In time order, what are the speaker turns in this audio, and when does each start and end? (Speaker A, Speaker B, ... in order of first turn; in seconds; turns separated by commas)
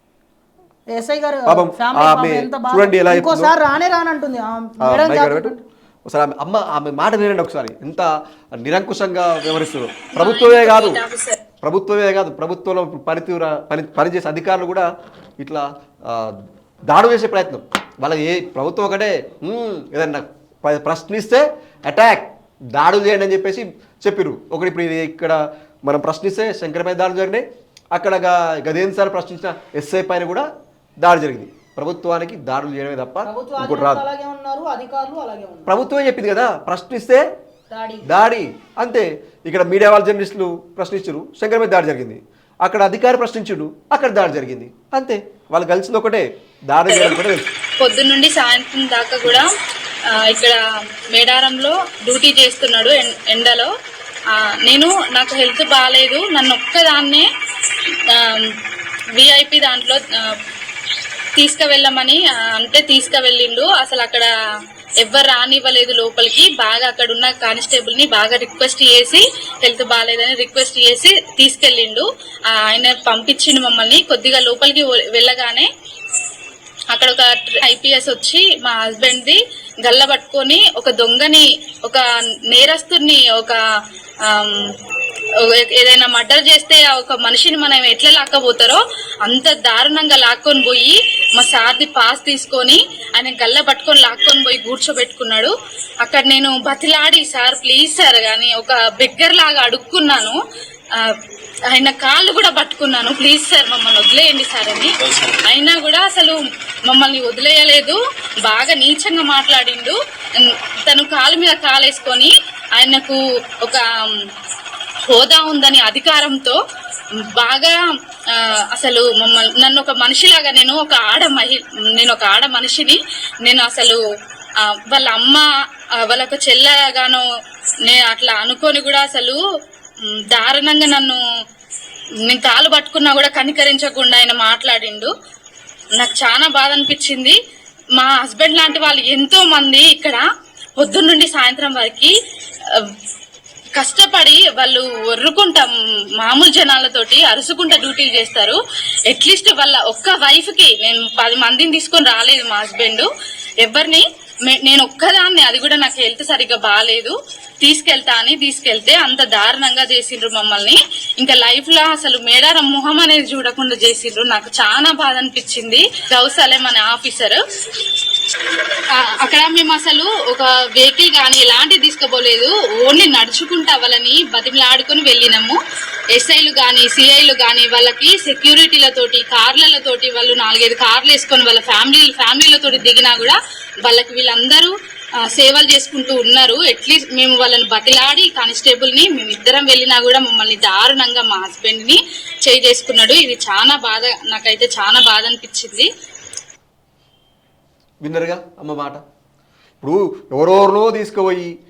Speaker A: 0.9-5.6, Speaker B: 1.5-3.5, Speaker B: 4.8-11.0, Speaker C: 10.1-11.4, Speaker B: 11.6-14.9, Speaker B: 15.4-30.5, Speaker B: 31.0-34.0, Speaker A: 33.2-35.8, Speaker B: 35.7-37.2, Speaker A: 37.7-38.1, Speaker B: 38.0-47.5, Speaker C: 46.9-47.2, Speaker C: 47.8-49.5, Speaker C: 50.1-50.6, Speaker C: 51.1-53.7, Speaker C: 54.3-58.5, Speaker C: 59.1-60.4, Speaker C: 61.4-64.3, Speaker C: 65.0-75.7, Speaker C: 76.9-83.6, Speaker C: 84.2-84.8, Speaker C: 85.4-100.4, Speaker C: 101.7-114.2, Speaker C: 115.1-116.6, Speaker C: 117.3-117.8, Speaker C: 118.3-124.0, Speaker C: 124.6-125.5, Speaker C: 126.0-127.2, Speaker C: 127.8-129.4, Speaker C: 130.1-131.2, Speaker C: 132.2-135.1, Speaker C: 136.0-137.4, Speaker C: 138.0-140.2, Speaker C: 140.8-142.1, Speaker C: 142.7-142.9, Speaker C: 143.8-153.1, Speaker C: 153.6-168.0, Speaker C: 168.9-175.6, Speaker C: 176.1-184.7, Speaker C: 185.3-195.9, Speaker B: 198.0-199.0, Speaker B: 199.8-201.5